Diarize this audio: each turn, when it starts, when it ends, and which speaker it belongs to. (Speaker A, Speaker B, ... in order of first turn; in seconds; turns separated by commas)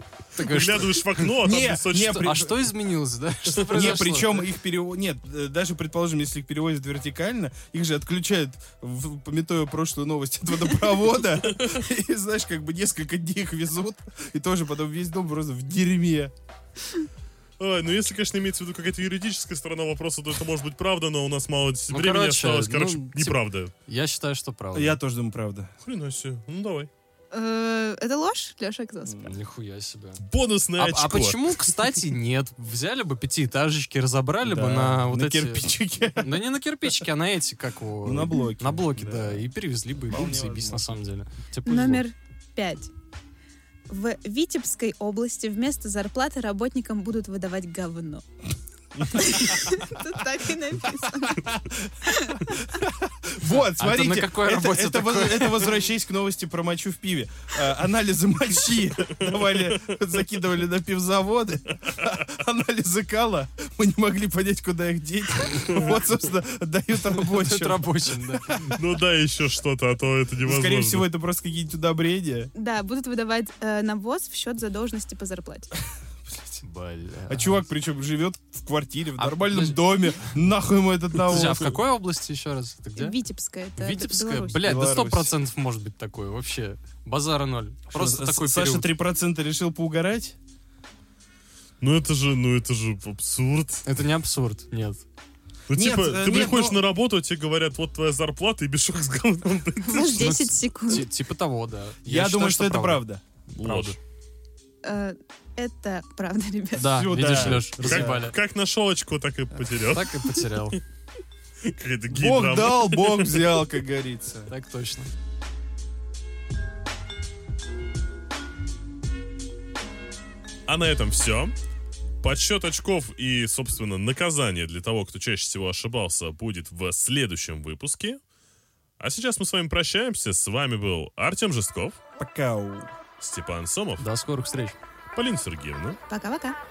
Speaker A: 0.4-4.5, Speaker B: 0.4-2.3, Speaker C: 1.4-2.6, Speaker C: 3.7-16.3, Speaker B: 17.6-23.7, Speaker A: 21.9-25.0, Speaker C: 24.7-25.7, Speaker B: 25.8-26.9, Speaker D: 27.3-29.3, Speaker C: 29.1-29.3, Speaker A: 29.2-30.2, Speaker B: 30.2-31.6, Speaker A: 30.8-42.0, Speaker C: 34.4-36.4, Speaker C: 38.0-39.5, Speaker C: 40.0-40.9, Speaker D: 41.7-42.9, Speaker D: 43.9-48.2, Speaker D: 49.0-52.6, Speaker C: 51.4-68.6, Speaker A: 53.5-55.8, Speaker B: 65.7-65.9, Speaker A: 67.1-68.8, Speaker B: 68.6-71.1, Speaker C: 70.4-72.5, Speaker D: 72.5-75.7, Speaker C: 76.3-76.6, Speaker A: 76.6-77.7, Speaker C: 77.3-81.8, Speaker A: 79.2-80.3, Speaker A: 81.2-83.2, Speaker D: 83.0-84.6, Speaker A: 83.8-88.9, Speaker C: 84.6-85.3, Speaker C: 87.9-90.4, Speaker B: 91.8-93.8, Speaker A: 93.9-95.0, Speaker B: 95.7-100.4, Speaker C: 95.7-96.8, Speaker D: 99.8-101.1, Speaker A: 100.1-103.0, Speaker C: 102.0-103.2, Speaker B: 103.5-104.0, Speaker A: 103.6-104.0, Speaker D: 104.8-107.3, Speaker A: 106.8-108.4, Speaker C: 106.8-108.2, Speaker B: 107.6-110.8, Speaker A: 109.9-110.8, Speaker B: 111.6-113.5, Speaker C: 112.1-114.5, Speaker A: 114.5-115.1, Speaker B: 120.7-121.5, Speaker B: 122.2-128.2, Speaker B: 129.0-132.0, Speaker C: 132.2-132.9, Speaker B: 133.2-134.1, Speaker A: 134.0-134.8, Speaker B: 135.2-136.0, Speaker D: 136.1-136.6